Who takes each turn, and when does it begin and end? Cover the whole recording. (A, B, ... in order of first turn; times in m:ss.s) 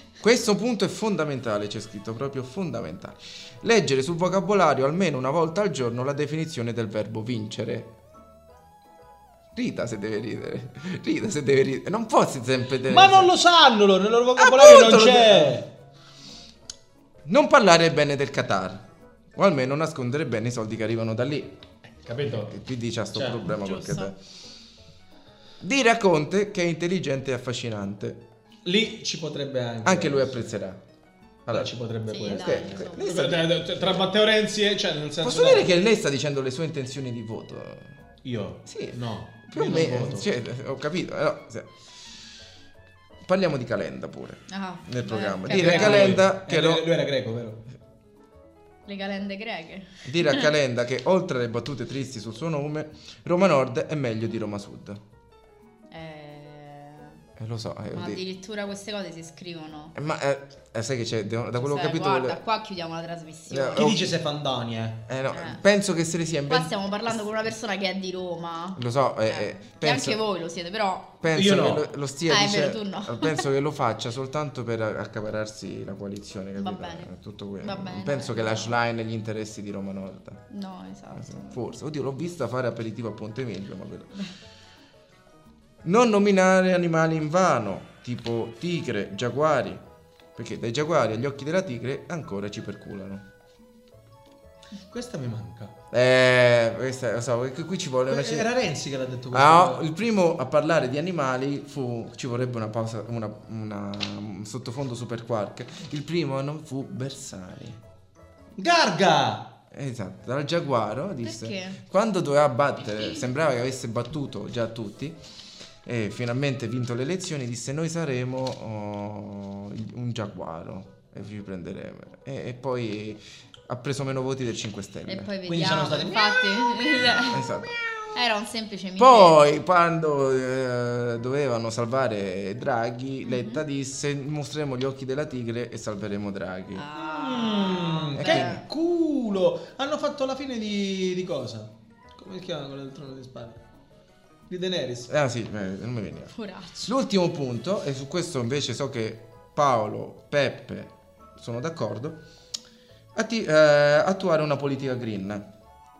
0:00.2-0:07.9 A
0:09.6-0:13.3 A
0:12.9-0:15.7 B
0:14.4-0:15.6 A
0:17.2-0:21.6 A
0:22.0-0:22.6 B
0:22.4-0:24.2 A
0:23.1-0:23.4 B
0:23.6-0:24.1 C
0:25.6-0:28.2 A
0:28.6-0:30.6 B
0:29.8-0:30.8 A
0:31.4-0:31.7 A
0:31.5-0:35.7 B
0:32.1-0:33.1 C
0:32.2-0:34.1 A
0:35.2-0:37.9 A
0:38.2-0:40.3 B
0:38.6-0:41.7 A
0:43.2-0:46.9 A
0:44.5-0:46.2 C
0:45.5-0:47.6 B
0:48.9-0:50.5 C
0:50.0-0:55.0 A
0:55.9-0:57.2 C
0:57.4-0:58.2 A
0:57.9-0:59.9 C
0:59.9-1:02.4 A
1:01.6-1:03.9 C
1:03.5-1:04.1 A
1:03.8-1:05.0 B
1:05.1-1:07.1 A
1:05.3-1:05.6 C
1:06.5-1:11.1 C
1:08.8-1:10.2 A
1:11.2-1:20.4 A
1:11.3-1:11.9 B
1:12.3-1:13.4 C
1:16.6-1:18.7 C
1:20.5-1:21.6 C
1:21.1-1:24.1 A
1:25.8-1:29.8 A
1:30.4-1:33.2 A
1:34.9-1:35.8 B
1:35.9-1:38.5 A
1:38.1-1:39.9 B
1:39.3-1:47.8 A
1:48.6-1:49.5 B
1:49.7-1:55.2 A
1:51.2-1:51.8 C
1:55.8-2:05.3 A
2:05.1-2:07.4 C
2:05.4-2:07.0 B
2:07.2-2:07.7 A
2:08.1-2:09.4 C
2:09.0-2:16.9 A
2:13.2-2:13.6 C
2:16.7-2:18.6 C
2:16.9-2:23.6 B
2:18.2-2:18.6 A
2:24.5-2:25.1 B
2:25.1-2:26.3 A
2:26.3-2:26.9 C
2:26.8-2:32.2 A
2:33.1-2:35.5 A